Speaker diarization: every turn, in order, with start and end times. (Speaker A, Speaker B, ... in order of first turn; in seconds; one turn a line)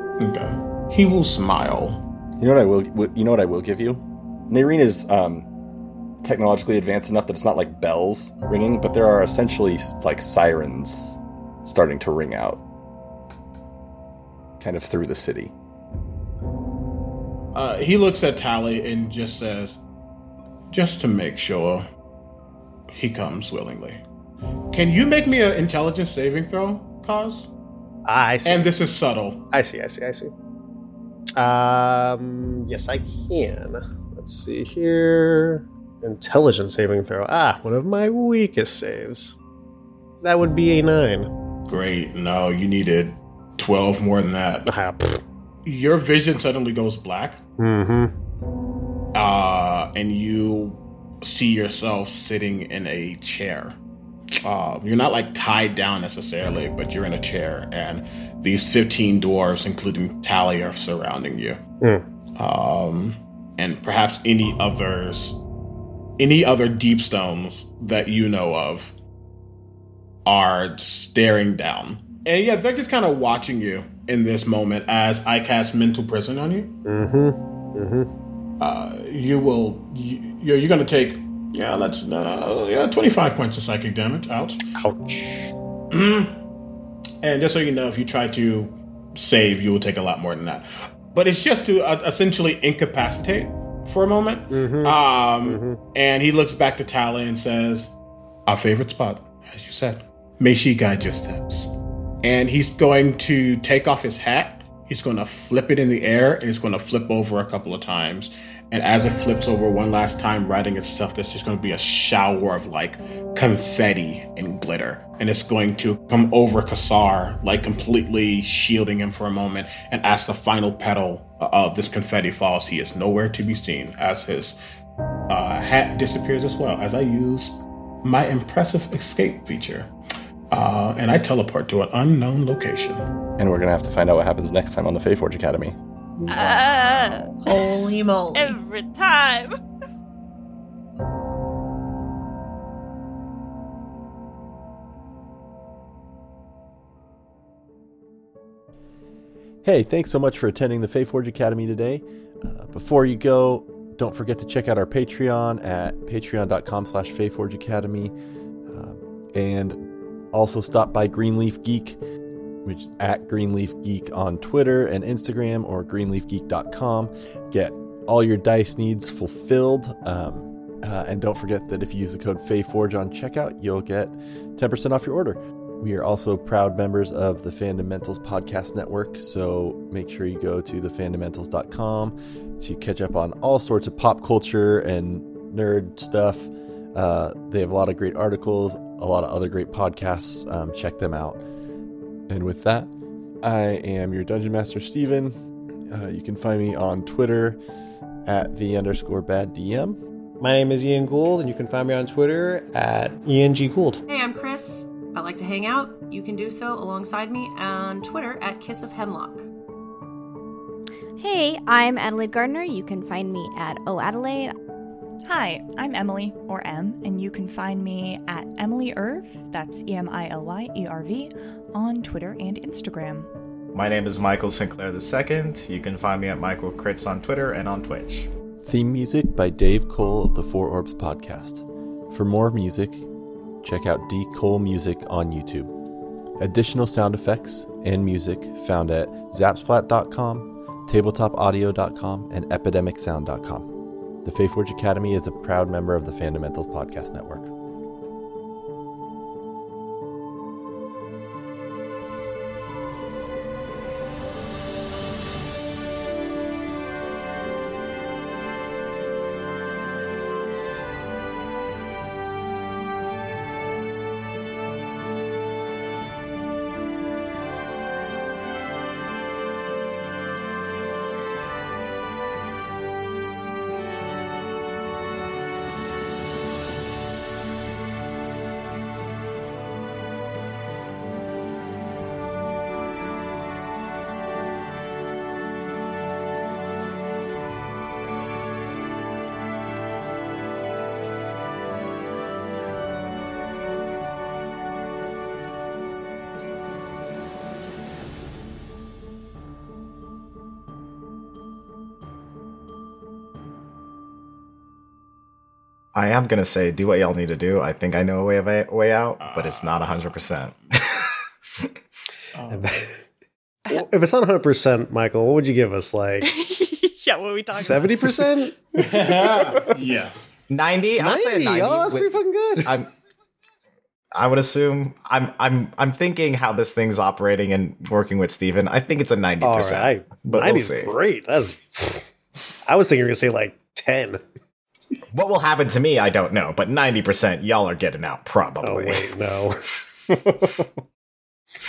Speaker A: 0.2-2.0
Speaker B: 2.4-5.5
Speaker B: 6.2-12.6
Speaker B: 14.6-15.5
Speaker A: 17.5-19.8
Speaker A: 20.7-21.9
Speaker A: 22.9-24.0
Speaker A: 24.7-27.5
Speaker C: 28.1-28.7
Speaker A: 28.4-29.4
Speaker C: 29.5-30.3
Speaker C: 31.4-39.4
Speaker C: 40.2-41.3
Speaker A: 41.7-44.7
Speaker C: 44.7-45.2
Speaker A: 45.6-47.4
Speaker C: 47.6-48.1
Speaker A: 49.1-53.8
Speaker A: 54.4-61.6
Speaker A: 62.4-65.4
Speaker A: 66.2-69.0
Speaker A: 70.3-76.7
Speaker C: 76.9-78.1
Speaker A: 78.6-84.6
Speaker C: 84.8-85.5
Speaker A: 85.9-86.4
Speaker A: 87.2-97.9
Speaker C: 94.5-95.8
Speaker A: 98.5-101.7
Speaker A: 102.2-124.6
Speaker A: 125.3-129.9
Speaker A: 130.5-133.0
Speaker B: 133.4-135.8
Speaker D: 136.3-137.7
Speaker E: 136.3-136.9
Speaker E: 137.4-138.6
Speaker D: 138.3-139.5
Speaker B: 149.6-158.2
Speaker B: 158.7-162.0
Speaker B: 162.6-191.4
Speaker B: 192.3-192.9
Speaker B: 193.4-195.4
Speaker B: 195.9-197.6
Speaker B: 198.3-200.0
Speaker C: 200.4-204.0
Speaker E: 204.1-209.5
Speaker F: 211.2-214.5
Speaker D: 215.3-223.3
Speaker G: 223.7-228.3
Speaker B: 228.6-233.1
Speaker B: 233.6-235.7
Speaker B: 236.4-243.7
Speaker B: 244.2-247.5
Speaker G: 305.9-311.1
Speaker A: 309.2-310.8
Speaker A: 312.4-312.9
Speaker C: 312.5-313.0
Speaker C: 313.7-316.3
Speaker D: 316.2-318.1
Speaker C: 317.6-318.6
Speaker A: 318.8-320.2
Speaker G: 320.5-322.9
Speaker C: 321.0-322.7
Speaker G: 324.1-330.9
Speaker C: 329.4-332.1
Speaker C: 332.7-334.2
Speaker G: 335.1-339.1
Speaker C: 338.6-339.6
Speaker B: 340.1-340.6